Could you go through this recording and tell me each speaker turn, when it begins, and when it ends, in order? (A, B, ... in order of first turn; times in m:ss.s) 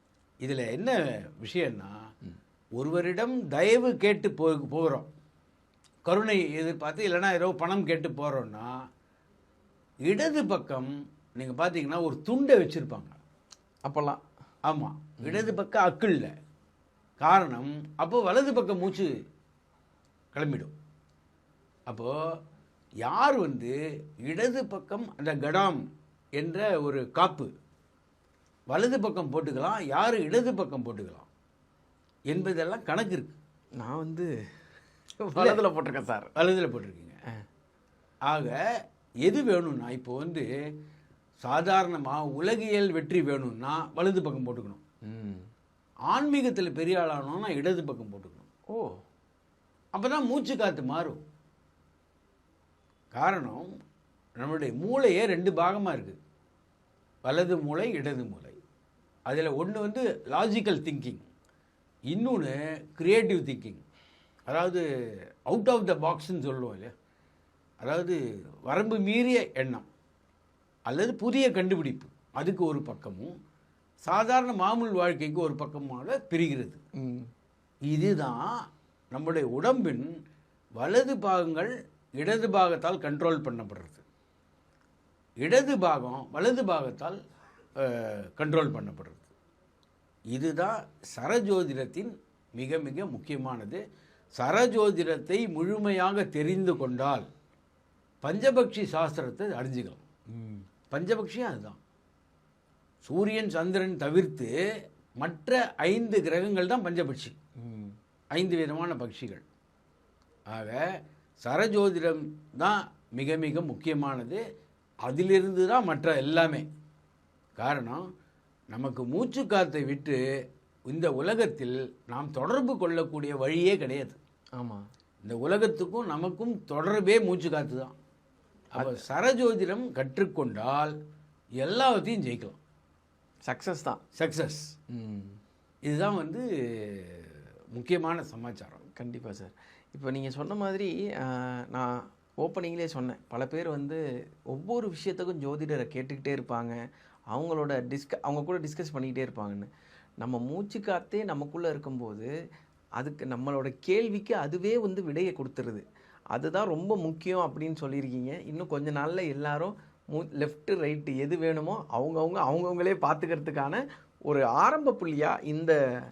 0:00.4-0:02.0 A
0:02.8-0:05.1 A
0:06.1-0:08.7 A
0:10.0-0:13.2 A
0:13.8-0:14.2 B
0:14.7-0:16.3 A
0:15.2-0:15.5 B
0:17.2-0:19.1 A
0:20.3-0:20.7 A
0:21.9-0:22.2 A
0:23.0-0:25.8 A
0:26.4-0:27.5 A
0:28.7-0:31.3 A
0:32.3-0:33.4 A
0:33.8-0:34.3 B
0:35.2-0:35.6 A
0:35.4-0:36.3 B
0:36.4-0:37.2 A
0:38.3-0:38.6 A
0:39.2-0:40.5 A
0:41.4-0:44.8 A
0:45.1-0:45.5 B
0:46.1-0:48.5 A
0:48.7-0:49.0 B
0:50.0-0:51.2 A
0:53.1-0:53.7 A
0:54.4-0:56.2 A
0:57.2-0:58.6 A
0:59.3-1:01.3 A
1:02.1-1:03.8 A
1:04.5-1:04.8 A
1:05.5-1:06.9 A
1:07.8-1:09.9 A
1:10.9-1:13.3 A
1:14.0-1:16.8 A
1:17.0-1:17.3 B
1:17.9-1:18.5 A
1:19.1-1:20.1 A
1:20.8-1:24.0 A
1:25.4-1:27.2 A
1:27.8-1:29.3 A
1:30.3-1:33.8 A
1:34.4-1:37.3 A
1:38.2-1:40.1 A
1:40.9-1:41.8 A
1:43.0-1:44.5 A
1:45.2-1:47.4 A
1:47.6-1:48.0 B
1:48.4-1:49.4 A
1:50.5-1:50.8 A
1:51.4-1:54.4 A
1:55.0-1:56.7 A
1:57.6-1:58.0 A
1:58.7-2:00.2 A
2:00.9-2:04.2 A
2:04.6-2:04.9 B
2:05.2-2:07.9 A
2:08.7-2:10.9 A
2:08.8-2:09.0 B
2:11.6-2:12.6 A
2:13.5-2:14.0 B
2:14.2-2:14.7 A
2:14.9-2:15.4 B
2:15.9-2:18.8 A
2:18.9-2:24.0 B
2:24.5-2:26.8 B
2:27.3-2:29.7 B
2:30.2-2:32.3 B
2:33.0-2:45.8 B